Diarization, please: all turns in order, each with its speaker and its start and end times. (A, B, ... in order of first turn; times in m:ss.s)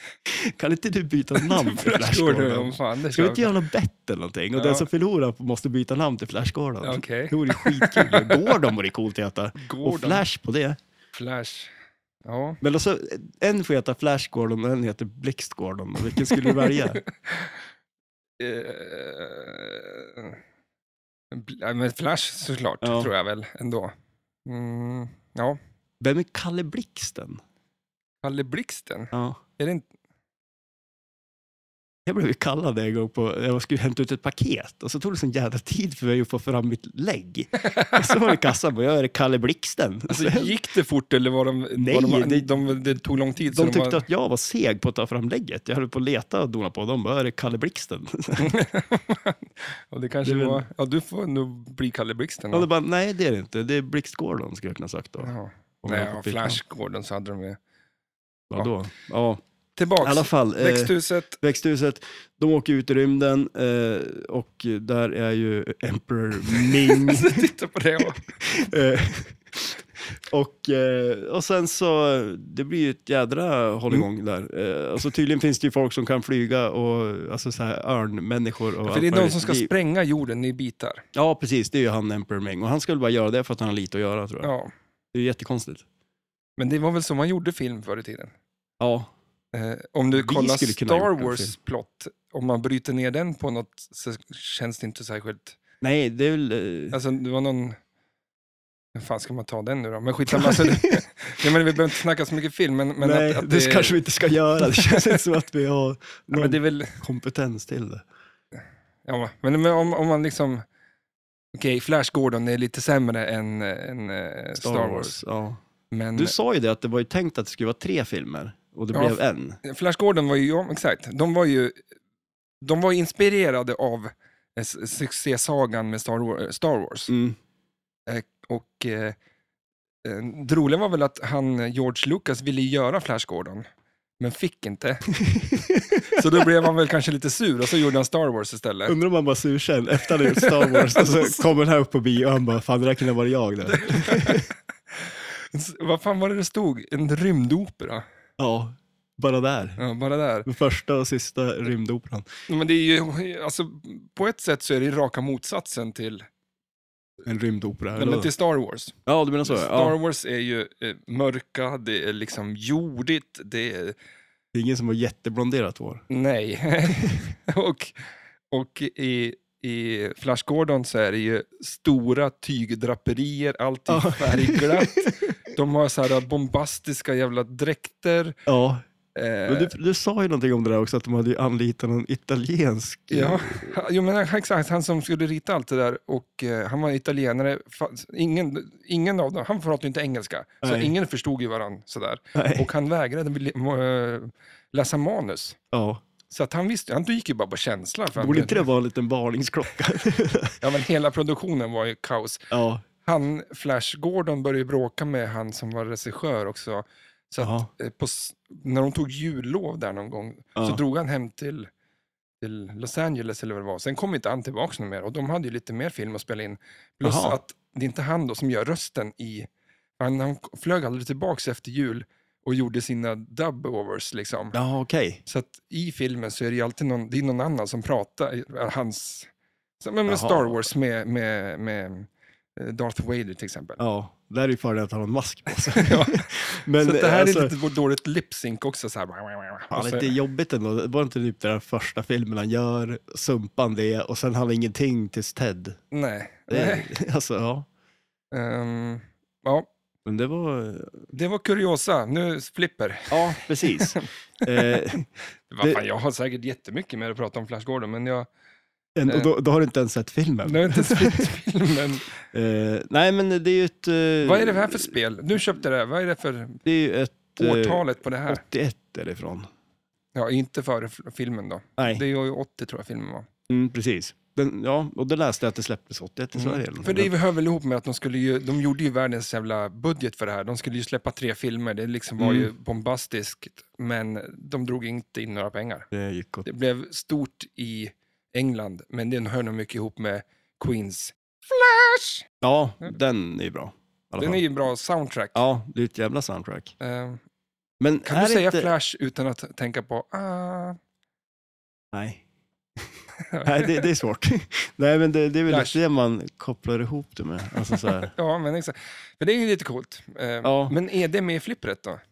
0:00.3-0:10.8 A
0:01.4-0:03.6 B
0:04.6-0:04.9 B
0:06.8-0:08.6 B
0:09.6-0:10.2 B
0:11.2-0:11.7 B
0:12.2-0:12.6 B
0:12.6-0:17.0 A
0:16.3-0:17.6 B
0:18.4-0:20.4 B
0:21.3-0:23.9 B
0:22.8-0:23.1 A
0:24.4-0:25.6 B
0:26.0-0:27.4 A
0:28.2-0:29.9 B
0:29.1-0:29.4 A
0:32.1-0:40.6 A
0:37.7-0:38.2 B
0:40.1-0:44.0 B
0:41.8-0:42.6 A
0:43.5-0:48.5 A
0:48.4-0:52.7 B
0:50.2-0:50.6 A
0:52.5-0:56.6 A
0:55.2-0:57.6 B
0:58.5-0:59.4 A
0:59.8-1:01.4 B
1:00.0-1:07.5 A
1:06.5-1:08.3 B
1:08.1-1:19.7 A
1:18.8-1:21.0 B
1:21.2-1:24.5 A
1:24.4-1:24.7 B
1:25.1-1:25.8 A
1:26.6-1:28.3 B
1:28.8-1:29.1 A
1:29.5-1:35.6 B
1:30.1-1:31.5 A
1:35.8-1:37.0 A
1:36.9-1:37.8 B
1:39.0-1:44.0 B
1:40.3-1:41.5 A
1:43.0-1:48.1 A
1:44.6-1:45.2 B
1:46.3-1:47.0 B
1:49.0-1:50.6 B
1:51.5-1:55.2 B
1:54.6-1:55.6 A
1:55.9-1:56.4 B
1:56.2-1:59.6 A
1:58.9-2:01.8 B
2:02.6-2:07.1 B
2:07.1-2:07.4 A
2:08.1-2:09.2 B
2:10.0-2:13.6 B
2:14.2-2:15.1 B
2:15.2-2:16.2 A
2:16.0-2:19.0 B
2:18.9-2:24.5 A
2:20.3-2:21.4 B
2:23.7-2:28.0 B
2:28.4-2:29.8 A
2:29.8-2:30.5 B
2:30.4-2:32.3 A
2:32.5-2:36.3 B
2:37.2-2:38.3 A
2:38.0-2:44.0 B
2:39.1-2:40.0 A
2:44.5-2:46.0 A
2:46.1-2:47.9 B
2:48.5-2:58.4 B
2:53.9-2:55.2 A
2:58.5-2:58.8 A
2:59.2-2:59.7 B
2:59.5-3:03.8 A
3:03.1-3:15.6 B
3:10.6-3:10.9 A
3:12.4-3:12.7 A
3:15.7-3:16.0 A
3:16.3-3:18.6 B
3:18.2-3:20.6 A
3:20.6-3:22.5 B
3:22.5-3:22.8 A
3:23.0-3:31.7 B
3:27.4-3:27.7 A
3:30.6-3:30.8 A
3:32.4-3:39.5 B
3:37.0-3:37.4 A
3:40.0-3:44.6 B
3:44.5-3:45.2 A
3:45.3-3:49.3 B
3:49.8-3:53.8 B
3:50.1-3:50.7 A
3:53.8-3:57.5 A
3:55.7-4:00.1 B
3:59.7-4:05.8 A
4:05.9-4:06.9 B
4:06.5-4:07.7 A
4:08.3-4:09.7 B
4:10.0-4:11.1 A
4:11.1-4:14.8 B
4:13.1-4:15.1 A
4:15.5-4:18.3 B
4:19.0-4:21.3 A
4:20.4-4:22.1 B
4:22.3-4:24.9 A
4:24.2-4:26.6 B
4:26.6-4:29.5 A
4:27.3-4:28.4 B
4:30.2-4:33.3 B
4:31.8-4:32.0 A
4:33.5-4:37.1 A
4:36.4-4:45.9 B
4:42.2-4:42.5 A
4:45.9-4:46.5 A
4:46.4-4:52.3 B
4:52.4-4:54.4 A
4:54.2-4:55.4 B
4:55.3-4:56.7 A
4:56.8-4:57.2 B
4:57.8-4:58.7 A
4:58.0-5:00.8 B
5:01.9-5:02.2 A
5:03.2-5:03.8 B
5:03.4-5:08.1 A
5:05.5-5:05.8 B
5:07.7-5:12.0 B
5:10.4-5:10.8 A